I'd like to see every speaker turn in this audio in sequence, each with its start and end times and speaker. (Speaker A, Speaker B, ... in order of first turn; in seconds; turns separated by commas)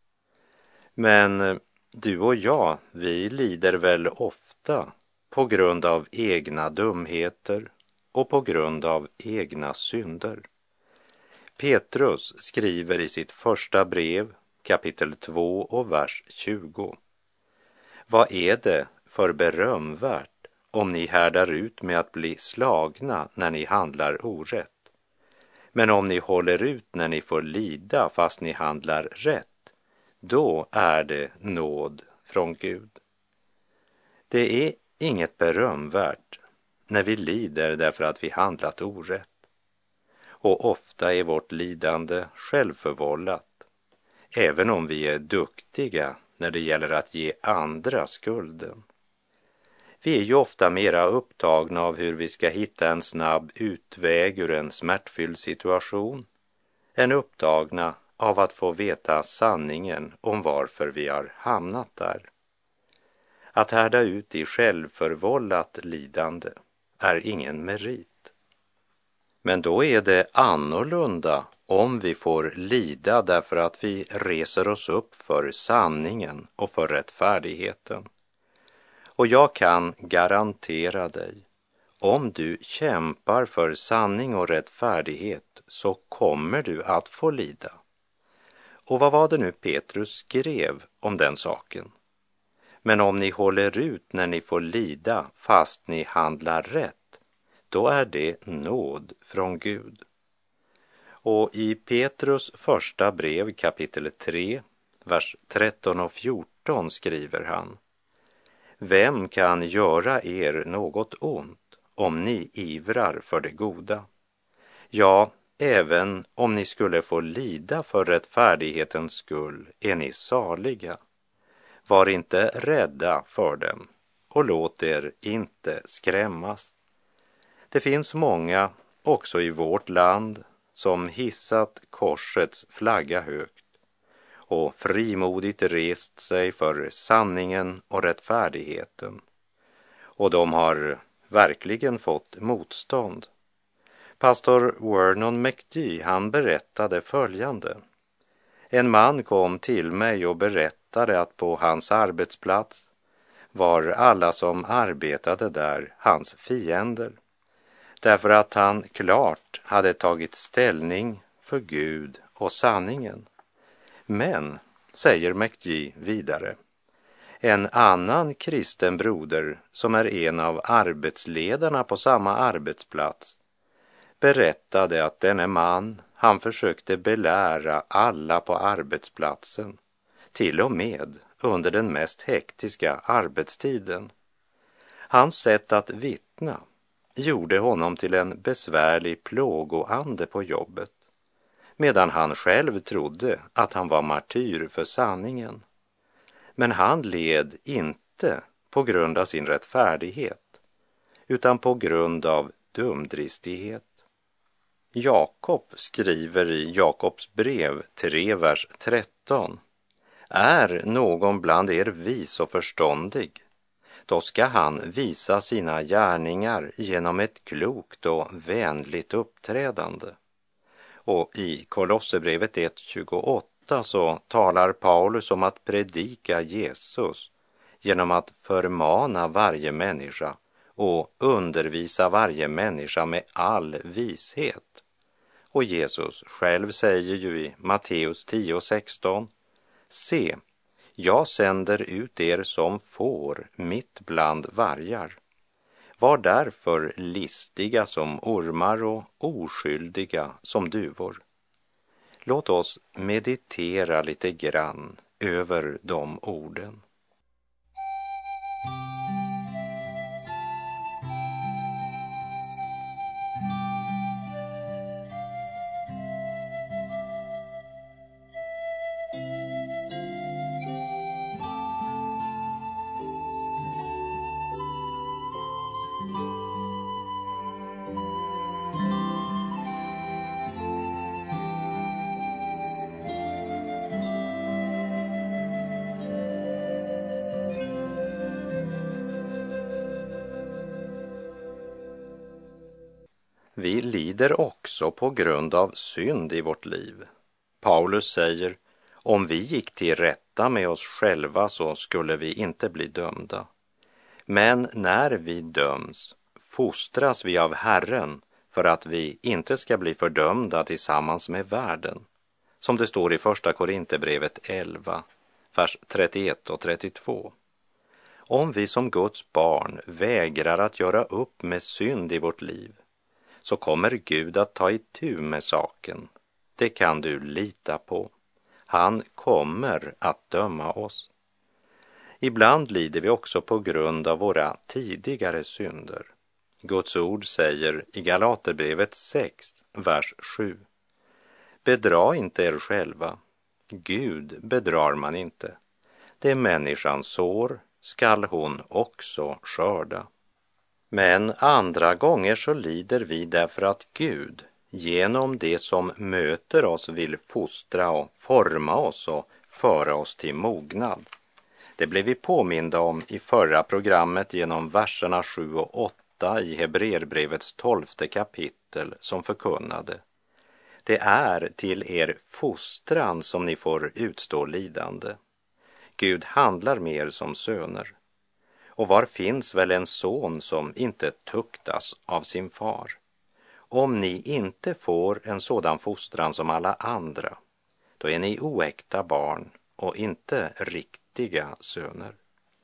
Speaker A: 0.9-10.5, Speaker A: 11.6-17.0, Speaker A: 18.1-24.9, Speaker A: 25.7-33.0, Speaker A: 34.3-39.5, Speaker A: 40.4-43.6, Speaker A: 44.3-48.8, Speaker A: 50.0-56.3, Speaker A: 56.9-62.3, Speaker A: 63.5-68.3, Speaker A: 69.4-78.0, Speaker A: 79.2-81.4, Speaker A: 82.0-87.8, Speaker A: 88.9-91.9, Speaker A: 92.8-97.2, Speaker A: 97.7-100.0, Speaker A: 101.2-107.8, Speaker A: 108.8-114.0, Speaker A: 114.9-121.0, Speaker A: 121.9-126.7, Speaker A: 127.7-133.7, Speaker A: 134.5-139.2, Speaker A: 140.2-143.3, Speaker A: 144.2-147.8, Speaker A: 148.7-152.9, Speaker A: 153.5-157.2, Speaker A: 158.0-163.3, Speaker A: 164.1-166.6, Speaker A: 167.4-173.4, Speaker A: 174.2-179.8, Speaker A: 180.3-184.1, Speaker A: 185.1-186.6, Speaker A: 187.2-190.9, Speaker A: 191.8-195.6, Speaker A: 196.6-200.6, Speaker A: 201.3-203.9, Speaker A: 204.9-209.6, Speaker A: 210.3-213.4, Speaker A: 214.1-220.2, Speaker A: 221.1-227.3, Speaker A: 227.8-234.8, Speaker A: 235.5-239.3, Speaker A: 239.9-240.4, Speaker A: 241.0-245.2, Speaker A: 246.0-251.2, Speaker A: 252.2-256.8, Speaker A: 293.6-297.1, Speaker A: 297.6-303.5, Speaker A: 304.3-312.1, Speaker A: 312.6-317.3, Speaker A: 318.3-322.8, Speaker A: 323.4-328.1, Speaker A: 328.7-331.1, Speaker A: 332.2-336.1, Speaker A: 336.6-340.6, Speaker A: 341.6-343.2, Speaker A: 343.7-345.6, Speaker A: 346.2-350.1, Speaker A: 350.9-361.1, Speaker A: 361.8-370.0, Speaker A: 370.8-375.2, Speaker A: 376.0-377.9, Speaker A: 378.8-383.0, Speaker A: 383.7-387.4, Speaker A: 388.0-392.2